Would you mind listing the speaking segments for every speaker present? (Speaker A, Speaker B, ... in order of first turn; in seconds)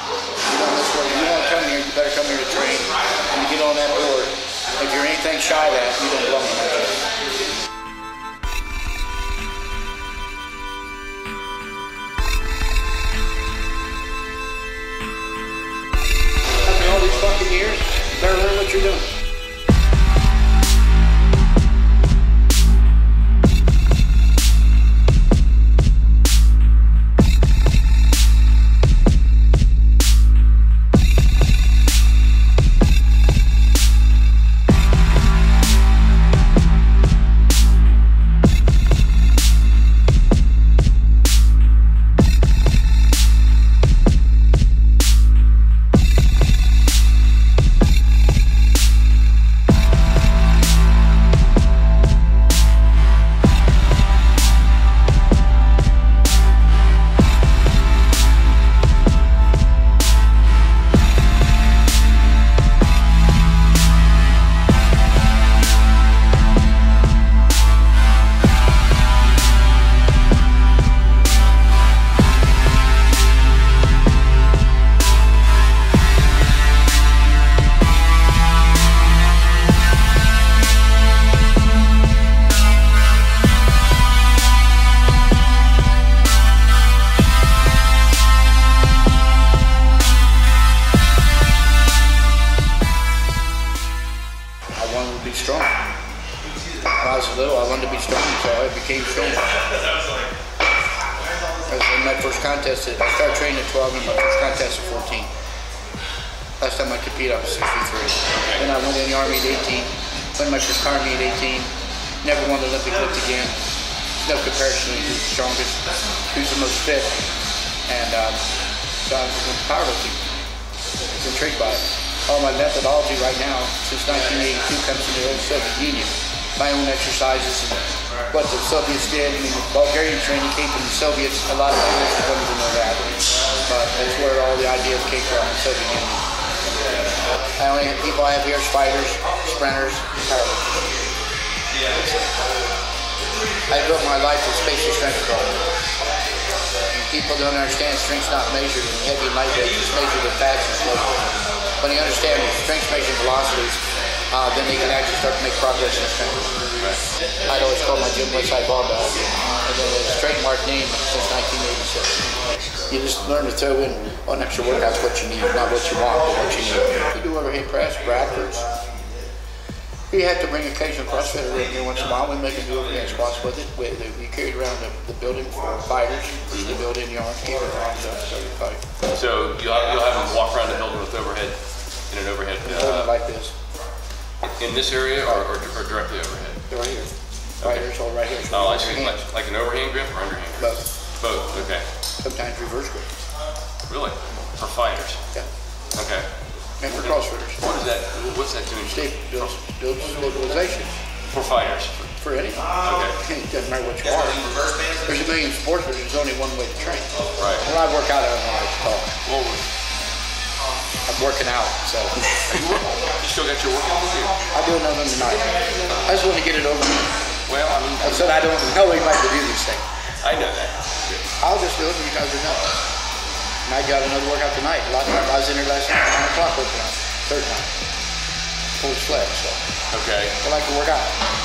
Speaker A: 0.5-6.9, 16.6-19.1, 94.7-95.7, 96.9-99.5, 101.7-105.3, 106.6-113.6, 114.2-117.1, 117.9-118.4, 119.0-120.2, 121.1-136.2, 137.6-140.7, 143.7-145.6, 146.9-151.2, 151.8-156.5, 157.5-162.2, 162.9-168.6, 170.1-178.8, 182.7-183.5, 186.7-187.1, 187.6-189.2, 192.2-193.1, 196.8-197.6, 198.9-200.9, 202.2-209.1, 211.1-212.3, 214.5-217.1, 218.0-219.8, 221.4-222.7, 223.6-227.7, 228.8-229.6, 230.4-231.1
Speaker B: 108.3-108.6, 176.5-176.8, 179.1-183.1, 184.4-186.6, 188.5-191.8, 193.9-195.2, 195.9-196.3, 196.9-199.4, 201.3-202.1, 202.8-203.2, 207.4-207.7, 209.2-209.6, 212.5-214.4, 217.4-218.3, 220.2-221.1, 229.9-230.4